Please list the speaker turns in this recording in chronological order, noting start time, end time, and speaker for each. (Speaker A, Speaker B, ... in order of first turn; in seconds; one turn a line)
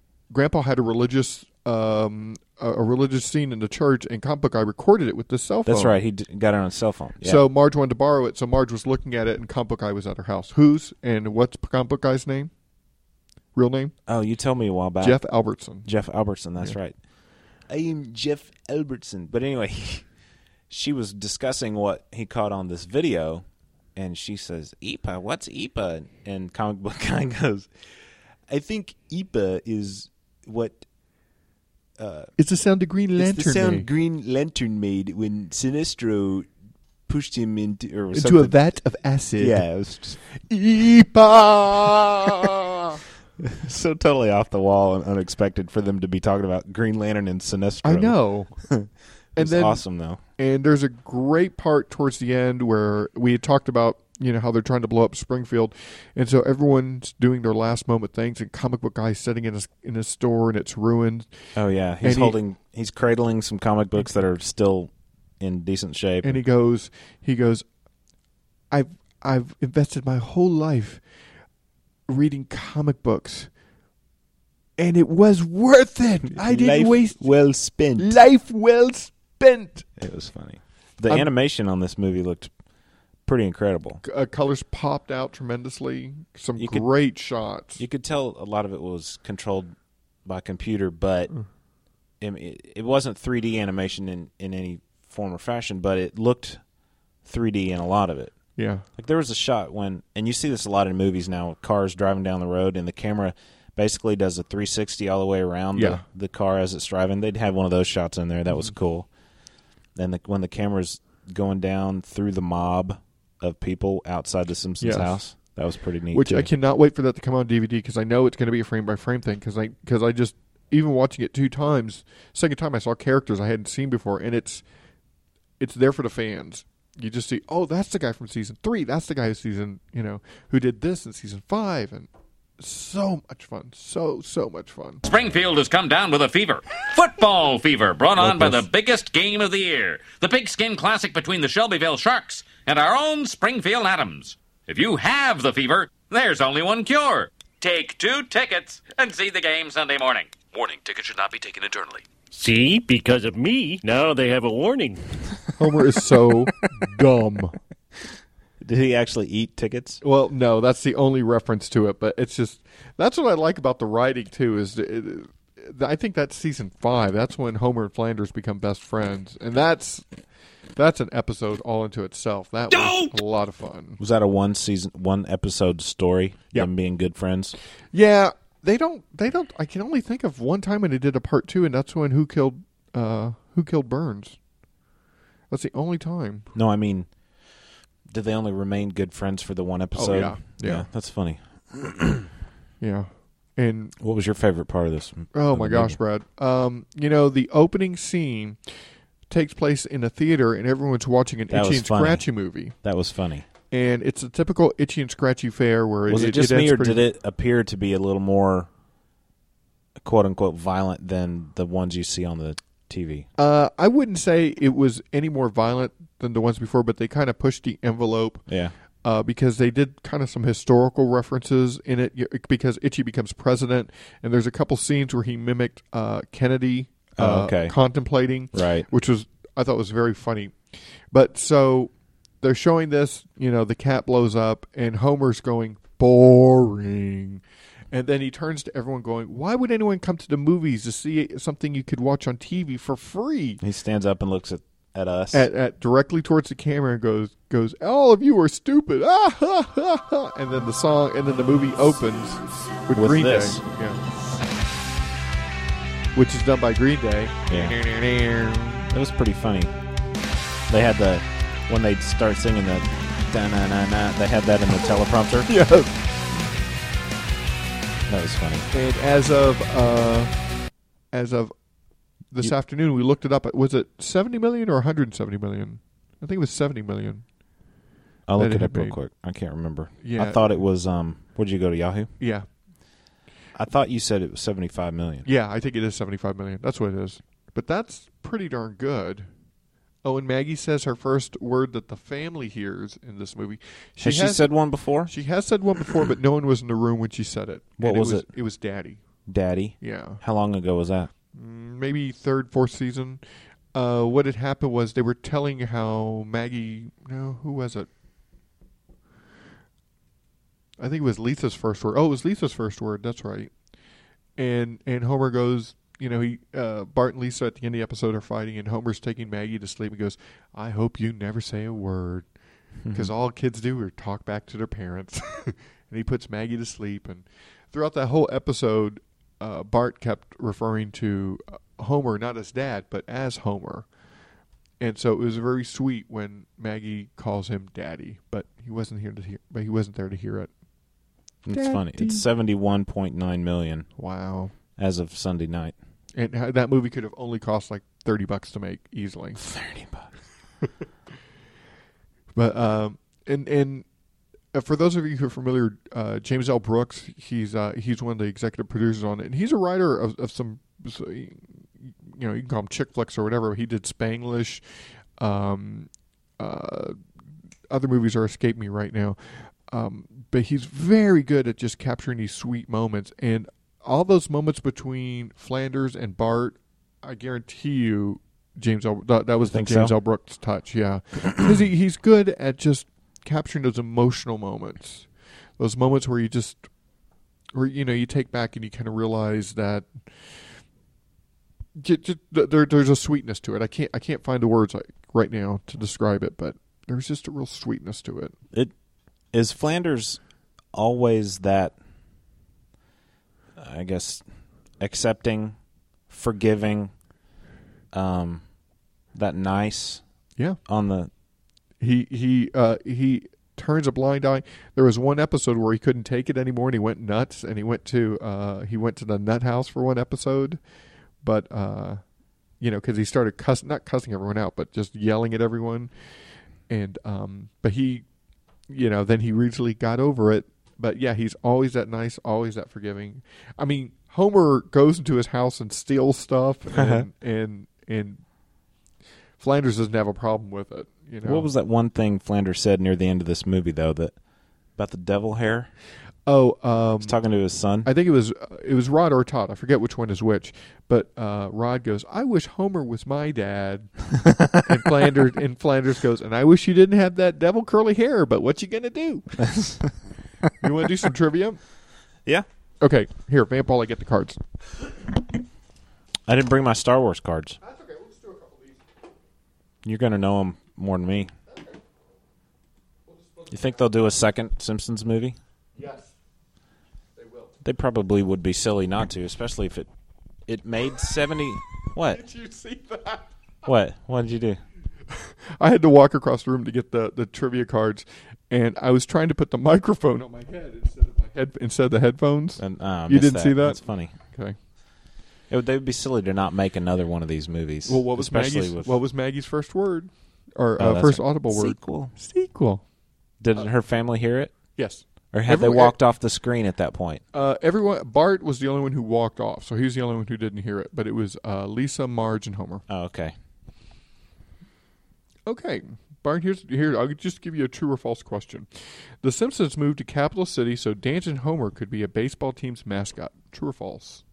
Speaker A: 0.3-6.0
Speaker B: 5.7-7.4
Speaker A: 7.2-12.5
Speaker A: 13.6-13.9
Speaker B: 14.1-17.0
Speaker A: 15.0-15.9
Speaker B: 17.6-20.1
Speaker B: 20.7-27.7
Speaker B: 28.5-30.9
Speaker B: 32.0-32.3
Speaker A: 32.4-33.9
Speaker B: 33.2-36.5
Speaker B: 37.1-38.6
Speaker A: 38.1-39.7
Speaker B: 39.4-40.2
Speaker A: 40.4-43.0
Speaker B: 43.4-50.2
Speaker A: 47.8-48.7
Speaker A: 49.4-61.3
Speaker B: 61.5-66.4
Speaker A: 62.0-62.4
Speaker A: 66.2-67.7
Speaker A: 68.7-71.0
Speaker A: 72.1-73.5
Speaker A: 74.8-77.2
Speaker B: 76.2-78.2
Speaker A: 78.0-79.9
Speaker B: 80.0-82.5
Speaker B: 83.2-84.0
Speaker A: 84.0-87.8
Speaker B: 86.6-86.9
Speaker B: 87.8-91.3
Speaker B: 92.2-96.6
Speaker B: 97.2-98.3
Speaker A: 98.6-98.8
Speaker B: 99.0-109.1
Speaker A: 105.8-106.0
Speaker B: 110.0-116.5
Speaker A: 114.8-115.2
Speaker A: 116.1-124.6
Speaker A: 125.6-135.0
Speaker C: 135.1-152.1
Speaker B: 138.2-138.7
Speaker D: 152.3-155.0
Speaker A: 155.6-157.6
Speaker B: 158.6-160.0
Speaker A: 160.0-170.1
Speaker A: 170.8-174.0
Speaker B: 174.0-177.6
Speaker A: 177.9-184.4
Speaker A: 185.5-186.5
Speaker B: 186.5-187.1
Speaker B: 188.1-192.3
Speaker A: 189.9-190.9
Speaker A: 192.8-193.9
Speaker B: 194.0-196.0
Speaker A: 195.3-198.6
Speaker A: 199.3-202.8
Speaker B: 201.5-203.5
Speaker A: 203.7-207.0
Speaker B: 206.1-208.7
Speaker B: 210.0-213.3
Speaker A: 213.4-218.4
Speaker B: 218.5-218.8
Speaker A: 219.0-230.6
Speaker B: 227.2-227.8
Speaker B: 228.5-228.9
Speaker A: 231.1-243.6
Speaker B: 243.6-245.5
Speaker A: 245.3-254.0
Speaker B: 252.9-253.7
Speaker A: 256.1-258.9
Speaker B: 257.5-257.8
Speaker B: 258.9-259.8
Speaker B: 260.7-265.5
Speaker A: 265.5-265.9
Speaker B: 268.1-268.7
Speaker A: 268.7-270.3
Speaker A: 271.1-271.5
Speaker A: 272.3-277.2
Speaker B: 278.3-282.1
Speaker A: 278.4-279.0
Speaker A: 280.0-280.6
Speaker A: 282.2-282.5
Speaker B: 283.6-285.3
Speaker A: 285.2-289.3
Speaker A: 290.0-299.0
Speaker B: 294.0-295.1
Speaker B: 297.8-298.3
Speaker B: 299.3-301.1
Speaker A: 299.8-300.2
Speaker A: 301.3-303.2
Speaker A: 303.7-307.9
Speaker A: 310.8-313.5
Speaker A: 314.4-322.3
Speaker B: 322.8-323.1
Speaker A: 322.9-333.9
Speaker A: 334.8-340.5
Speaker B: 341.4-343.9
Speaker A: 341.5-342.2
Speaker A: 344.0-344.5
Speaker B: 344.8-345.8
Speaker A: 346.1-349.4
Speaker B: 349.4-350.1
Speaker A: 352.4-353.9
Speaker A: 354.5-364.6
Speaker A: 365.2-367.0
Speaker A: 367.7-386.7
Speaker B: 379.5-380.0
Speaker A: 387.5-390.1
Speaker A: 391.8-398.3
Speaker B: 399.3-400.2
Speaker B: 400.7-401.8
Speaker B: 403.6-404.2
Speaker B: 404.8-405.6
Speaker B: 406.1-406.9
Speaker B: 407.9-408.5
Speaker B: 409.1-410.0
Speaker B: 410.6-411.1
Speaker A: 411.8-420.6
Speaker A: 421.2-422.0
Speaker A: 422.6-425.9
Speaker A: 426.7-428.1
Speaker A: 428.7-438.2
Speaker B: 436.7-437.1
Speaker A: 439.4-441.5
Speaker B: 441.2-444.2
Speaker B: 444.8-445.7
Speaker A: 446.3-447.2
Speaker B: 447.0-447.9
Speaker A: 447.8-453.9
Speaker B: 454.2-454.6
Speaker A: 454.6-459.4
Speaker B: 459.4-460.5
Speaker A: 460.6-461.6
Speaker A: 462.8-464.4
Speaker B: 466.3-467.6
Speaker A: 467.6-468.8
Speaker B: 469.8-471.3
Speaker A: 473.1-473.5
Speaker B: 473.5-475.4
Speaker A: 475.8-476.1
Speaker A: 477.2-477.5
Speaker B: 477.6-479.9
Speaker B: 480.5-482.2
Speaker A: 482.1-483.3
Speaker B: 483.6-484.6
Speaker A: 485.1-494.6
Speaker B: 492.6-494.1
Speaker B: 495.5-499.0
Speaker A: 497.9-502.8
Speaker B: 500.8-502.1
Speaker B: 503.4-504.5
Speaker A: 504.8-506.0
Speaker B: 505.3-507.2
Speaker A: 507.3-512.8
Speaker B: 512.9-513.3
Speaker A: 515.5-518.7
Speaker A: 519.2-524.2